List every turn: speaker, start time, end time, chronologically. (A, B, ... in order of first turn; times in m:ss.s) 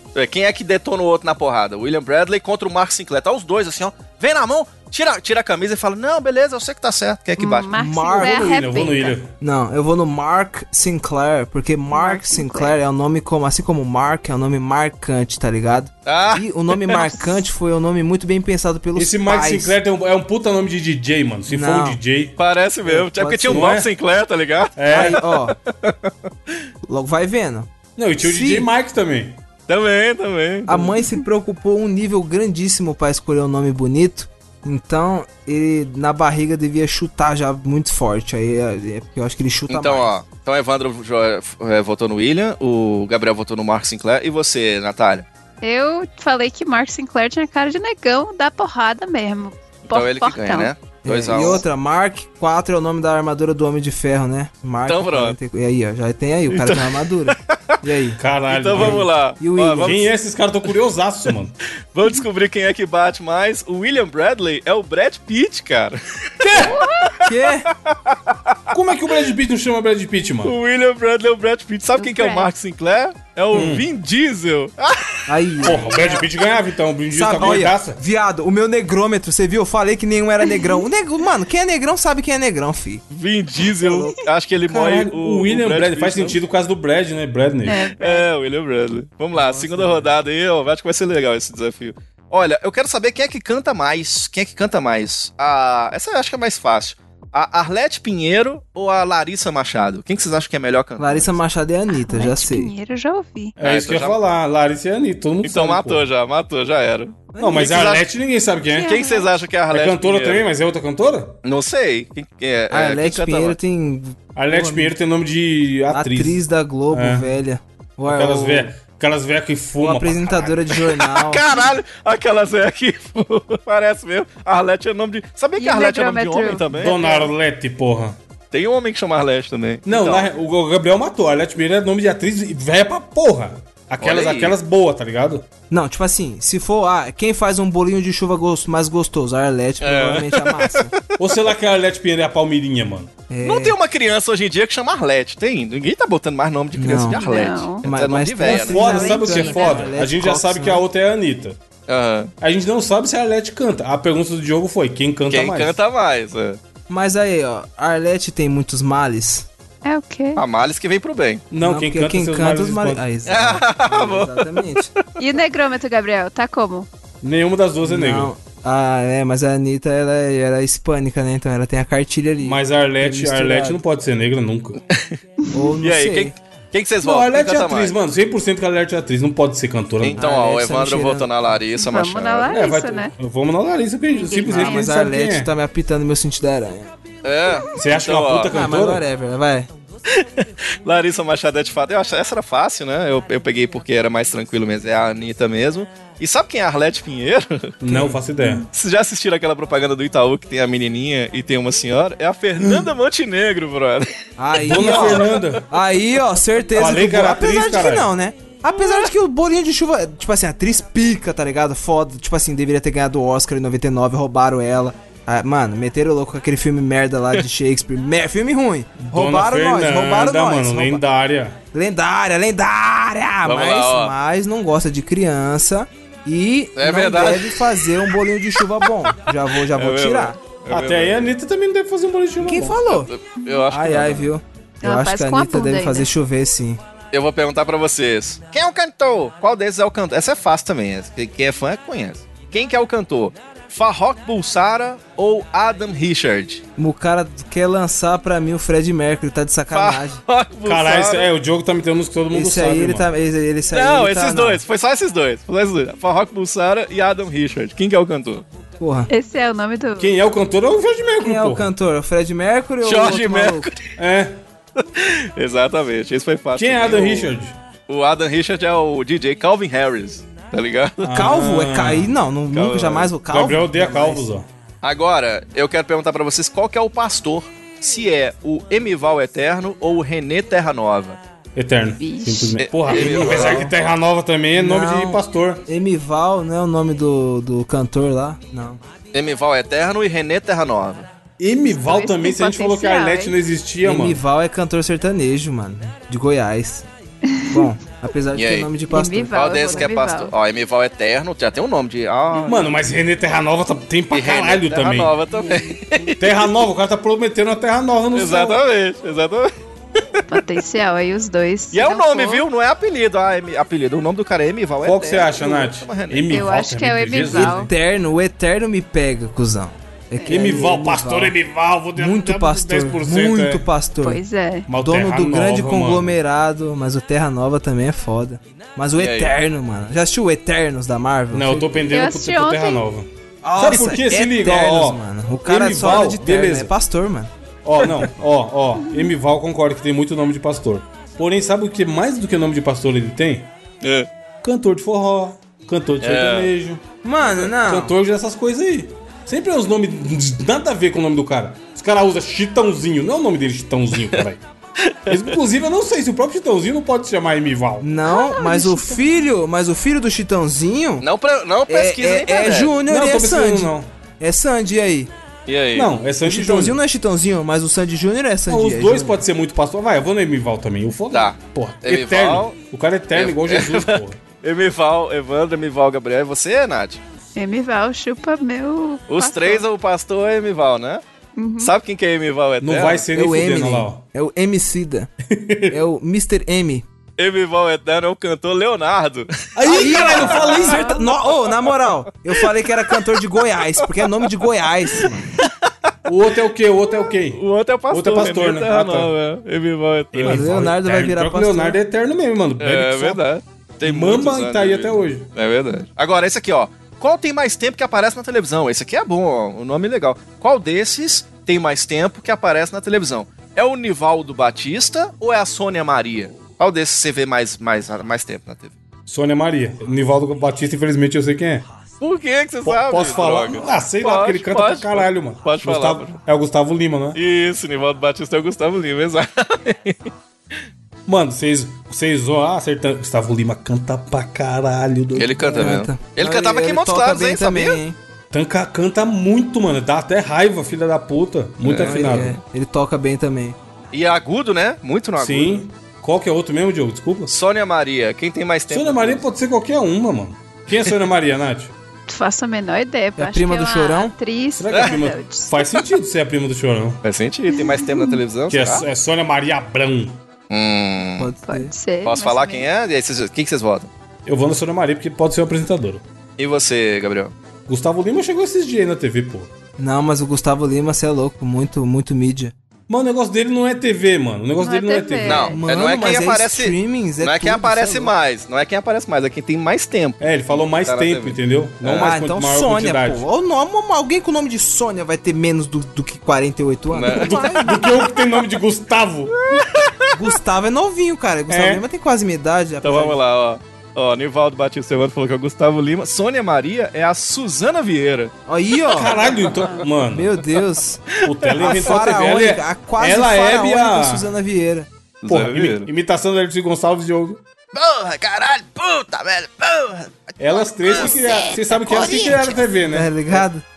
0:00.1-0:07.7 A
0:07.4-0:09.2 B
0:07.7-0:08.5 C
0:08.1-0:09.3 D
0:09.4-0:19.7 C
0:11.9-0:12.7 B
0:16.0-0:17.3 A
0:18.9-0:22.4 D
0:21.5-0:22.0 C
0:22.4-0:26.6 A
0:22.8-0:23.8 C
0:23.5-0:23.9 D
0:24.8-0:25.2 D
0:24.9-0:25.6 C
0:26.8-0:27.7 C
0:28.0-0:29.4 D
0:28.2-0:28.7 C
0:29.7-0:31.1 A
0:30.7-0:40.1 C
0:39.7-0:45.2 A
0:45.6-0:50.7 B
0:49.9-0:51.6 A
0:51.0-0:58.2 C
0:54.8-0:55.4 A
0:56.5-0:57.8 A
0:58.2-0:59.1 D
0:58.5-1:00.0 A
0:58.7-1:00.1 C
0:59.8-1:01.5 D
1:01.9-1:08.8 A
1:06.4-1:06.8 D
1:06.6-1:07.1 B
1:07.2-1:07.7 C
1:08.7-1:10.5 D
1:10.4-1:16.2 A
1:12.0-1:12.5 B
1:13.5-1:13.9 D
1:15.3-1:16.2 C
1:15.6-1:18.0 D
1:17.1-1:23.0 C
1:23.1-1:26.4 A
1:23.6-1:24.2 C
1:24.7-1:27.9 D
1:27.6-1:28.3 B
1:27.9-1:41.4 A
1:29.3-1:30.1 C
1:41.0-1:42.7 C
1:41.9-1:43.5 B
1:43.6-1:46.1 D
1:43.6-1:44.2 A
1:45.4-1:48.1 A
1:47.3-1:47.8 C
1:47.4-1:48.9 D
1:48.7-1:49.3 B
1:48.8-1:50.4 A
1:49.7-1:51.4 D
1:51.4-1:53.6 A
1:52.7-1:54.9 C
1:54.4-1:56.4 D
1:55.9-1:58.7 C
1:56.9-1:57.4 D
1:58.0-2:00.7 D
1:59.8-2:01.4 C
2:01.0-2:07.1 A
2:05.6-2:07.2 B
2:06.7-2:08.2 D
2:08.5-2:10.3 A
2:09.8-2:15.5 D
2:14.0-2:14.5 A
2:15.7-2:21.0 C
2:19.8-2:21.2 A
2:21.2-2:23.1 D
2:23.3-2:23.8 C
2:23.4-2:29.0 A
2:26.7-2:27.2 C
2:27.1-2:27.8 B
2:27.8-2:30.8 C
2:28.4-2:31.6 D
2:28.7-2:29.9 B
2:31.9-2:32.3 A
2:32.4-2:35.7 D
2:35.3-2:36.6 A
2:36.9-2:39.5 C
2:39.8-2:40.4 B
2:40.4-2:41.4 A
2:41.5-2:43.0 D
2:41.6-2:44.9 C
2:43.2-2:44.7 A
2:45.2-2:46.9 B
2:47.2-2:48.3 D
2:47.8-2:53.8 C
2:52.4-2:54.8 D
2:54.9-2:55.2 A
2:55.5-2:56.3 C
2:55.8-2:58.0 A
2:57.0-3:00.2 D
3:00.0-3:02.5 A
3:00.2-3:01.3 C
3:01.8-3:03.1 B
3:02.4-3:05.5 D
3:04.2-3:04.9 B
3:04.4-3:06.9 C
3:07.2-3:08.7 A
3:07.7-3:09.0 D
3:08.5-3:09.7 C
3:10.1-3:17.8 A
3:17.8-3:18.7 D
3:17.9-3:18.2 C
3:18.7-3:25.3 A
3:22.6-3:22.9 D
3:24.4-3:41.0 C
3:24.6-3:25.7 D
3:26.7-3:28.1 D
3:28.7-3:29.1 A
3:39.0-3:41.6 D
3:41.7-3:50.4 C
3:43.4-3:44.1 A
3:46.8-3:48.1 A
3:49.7-3:51.3 A
3:50.7-3:52.8 D
3:52.4-3:53.1 C
3:52.8-3:54.3 A
3:53.7-3:56.8 C
3:54.8-3:56.1 B
3:57.1-4:06.6 A
4:06.8-4:10.2 C
4:09.7-4:11.3 A
4:10.6-4:13.1 D
4:12.3-4:14.6 C
4:13.7-4:18.4 A
4:18.8-4:19.1 C
4:19.1-4:20.1 B
4:20.0-4:21.7 D
4:21.2-4:23.7 C
4:22.8-4:23.9 A
4:24.0-4:24.4 D
4:24.8-4:27.3 A
4:26.5-4:27.6 D
4:27.9-4:31.3 A
4:31.0-4:32.2 D
4:31.1-4:34.3 C
4:32.5-4:33.1 A
4:33.3-4:34.4 D
4:34.8-4:41.2 A
4:41.5-4:45.7 D
4:42.0-4:42.6 B
4:42.6-4:43.7 A
4:42.9-4:43.7 C
4:44.5-4:48.8 C
4:49.1-4:51.1 A
4:51.4-4:54.2 D
4:51.7-4:53.4 B
4:53.8-4:56.8 C
4:57.2-4:57.7 B
4:57.5-4:59.9 C
4:58.3-4:58.7 A
4:58.9-5:00.3 B
4:59.3-5:02.6 A
5:02.4-5:05.2 D
5:04.1-5:06.4 A
5:06.2-5:08.6 D
5:08.1-5:09.5 A
5:10.3-5:12.4 B
5:11.7-5:16.5 A
5:14.8-5:17.7 D
5:16.3-5:17.7 B
5:17.3-5:21.3 C
5:20.1-5:20.4 B
5:20.2-5:23.7 D
5:22.0-5:24.2 C
5:24.0-5:24.7 B
5:24.7-5:26.2 D
5:24.7-5:31.7 C
5:29.0-5:29.4 A
5:31.3-5:36.7 D
5:31.9-5:32.8 B
5:33.4-5:37.3 C
5:37.6-5:43.5 D
5:38.8-5:39.1 B
5:43.8-5:44.1 A
5:44.4-5:54.4 D
5:46.0-5:46.5 A
5:47.0-5:47.9 C
5:54.8-5:55.4 A
5:55.1-5:57.9 D
5:57.8-6:01.0 C
5:58.1-5:59.2 B
6:01.0-6:02.8 A
6:01.7-6:05.1 C
6:02.8-6:03.9 D
6:05.5-6:05.9 A
6:05.7-6:06.8 D
6:06.2-6:09.2 C
6:08.5-6:14.2 D
6:11.1-6:12.5 A
6:13.1-6:17.0 A
6:17.4-6:19.6 B
6:19.1-6:21.0 A
6:21.4-6:21.7 B
6:21.6-6:23.1 A
6:22.6-6:24.0 D
6:23.1-6:25.1 C
6:25.2-6:25.8 D
6:25.7-6:26.8 C
6:27.2-6:33.0 A
6:29.6-6:30.8 D
6:29.6-6:35.2 C
6:30.6-6:31.0 B
6:33.8-6:36.1 A
6:36.0-6:39.1 D
6:37.3-6:40.5 A
6:40.1-6:43.2 D
6:40.2-6:41.8 C
6:42.6-6:58.7 A
6:43.8-6:45.3 D
6:59.0-7:01.7 D
7:02.0-7:06.2 A
7:02.6-7:07.2 D
7:07.1-7:10.1 A
7:11.0-7:15.7 D
7:15.1-7:17.8 A
7:15.3-7:18.0 C
7:18.3-7:22.4 D
7:21.6-7:22.3 A
7:21.8-7:23.6 C
7:23.9-7:25.6 A
7:25.2-7:27.3 D
7:27.3-7:29.2 A
7:28.7-7:31.7 D
7:32.1-7:35.5 B
7:33.2-7:34.1 C
7:34.6-7:37.0 D
7:34.7-7:35.0 A
7:37.0-7:38.9 A
7:37.7-7:38.1 B
7:38.5-7:40.2 D
7:40.5-7:41.3 A
7:41.2-7:41.7 C
7:41.4-7:42.7 B
7:42.0-7:43.9 A
7:44.2-7:46.0 D
7:46.4-7:47.3 A
7:47.7-7:49.5 D
7:49.8-7:52.5 C
7:52.9-7:55.5 D
7:54.6-7:55.6 B
7:55.2-8:02.2 A
7:55.5-7:58.1 C
8:00.2-8:03.2 D
8:02.0-8:07.8 C
8:06.9-8:07.8 A
8:07.0-8:09.3 D
8:09.4-8:10.2 A
8:10.1-8:13.2 C
8:11.5-8:11.8 D
8:12.8-8:18.3 A
8:18.5-8:19.4 C
8:18.9-8:20.3 D
8:18.9-8:19.8 A
8:19.4-8:19.8 B
8:20.0-8:24.9 C
8:21.1-8:22.3 A
8:21.2-8:24.3 D
8:25.2-8:25.9 A
8:25.3-8:27.4 D
8:27.7-8:32.4 A
8:30.4-8:33.4 D
8:32.8-8:33.6 C